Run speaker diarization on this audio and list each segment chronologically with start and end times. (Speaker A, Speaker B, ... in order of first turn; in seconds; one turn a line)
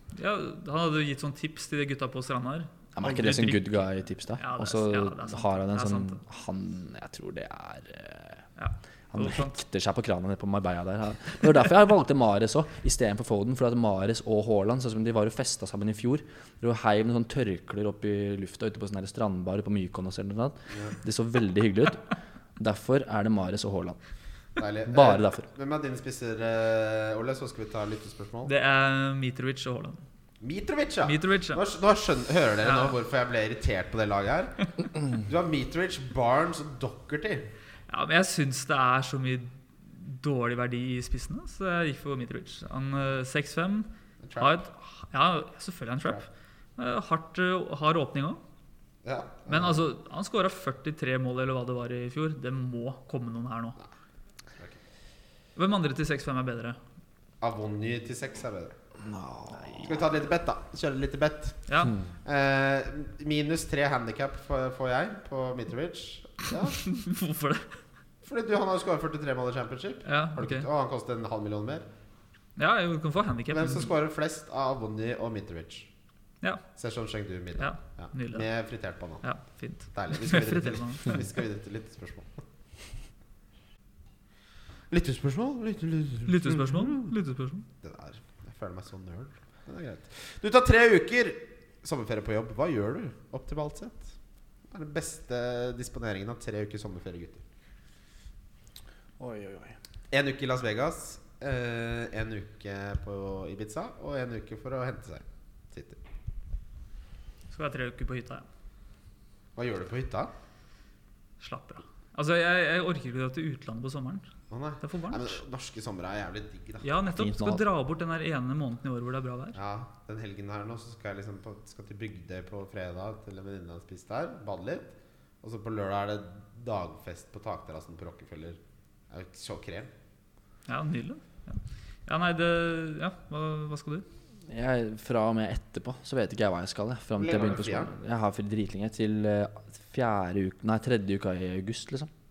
Speaker A: 0.1-6.2
Speaker B: 3.0-8.4
Speaker A: 8.6-9.6
Speaker B: 9.1-22.0
Speaker B: 22.6-24.0
Speaker C: 24.6-28.5
Speaker B: 24.9-25.5
Speaker A: 28.4-30.0
Speaker C: 30.4-37.5
Speaker A: 31.0-31.6
Speaker A: 32.6-32.9
Speaker A: 37.9-46.2
Speaker C: 44.2-44.6
Speaker A: 46.8-48.4
Speaker C: 49.0-49.8
Speaker A: 49.5-53.8
Speaker A: 55.5-56.8
Speaker C: 57.4-58.8
Speaker B: 59.0-59.9
Speaker C: 59.7-61.6
Speaker A: 61.7-61.9
Speaker C: 62.2-66.8
Speaker A: 66.8-67.8
Speaker C: 68.2-71.8
Speaker A: 70.0-70.7
Speaker A: 72.6-73.9
Speaker C: 73.5-75.9
Speaker C: 76.8-79.2
Speaker A: 77.6-78.5
Speaker A: 79.2-81.2
Speaker C: 79.9-82.4
Speaker C: 84.9-87.1
Speaker A: 86.2-87.7
Speaker C: 87.8-94.1
Speaker C: 94.7-97.4
Speaker B: 99.2-99.8
Speaker C: 100.1-106.0
Speaker A: 107.5-108.5
Speaker C: 109.5-110.3
Speaker A: 111.4-114.3
Speaker C: 114.5-116.9
Speaker A: 114.8-115.4
Speaker A: 116.8-119.6
Speaker B: 117.1-117.6
Speaker C: 119.5-128.6
Speaker C: 129.1-129.9
Speaker A: 130.7-134.0
Speaker B: 134.5-142.1
Speaker C: 137.2-137.9